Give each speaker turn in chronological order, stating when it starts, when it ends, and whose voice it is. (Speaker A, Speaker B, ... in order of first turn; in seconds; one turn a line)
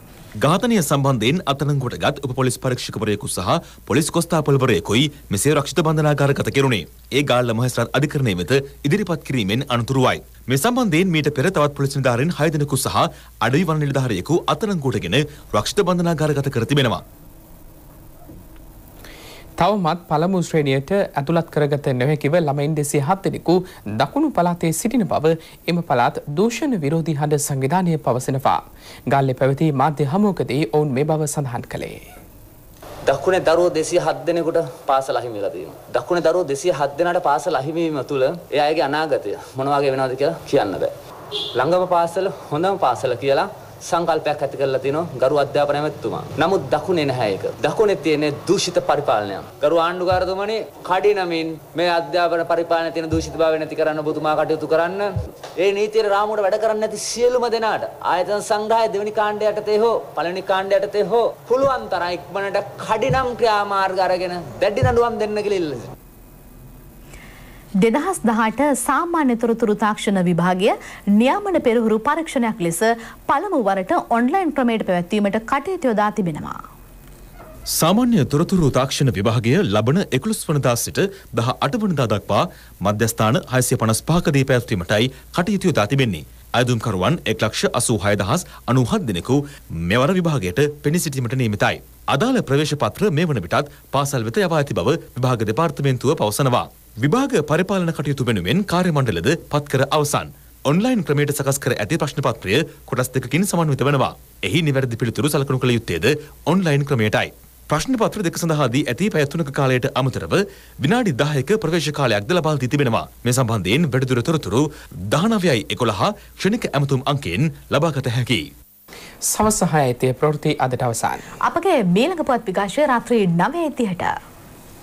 Speaker A: 0.4-17.0
Speaker B: 19.6-32.0
Speaker C: 33.0-40.9
Speaker C: 41.6-65.9
Speaker D: 67.8-76.5
Speaker A: 77.8-118.5
Speaker B: 119.3-121.2
Speaker D: 121.5-124.1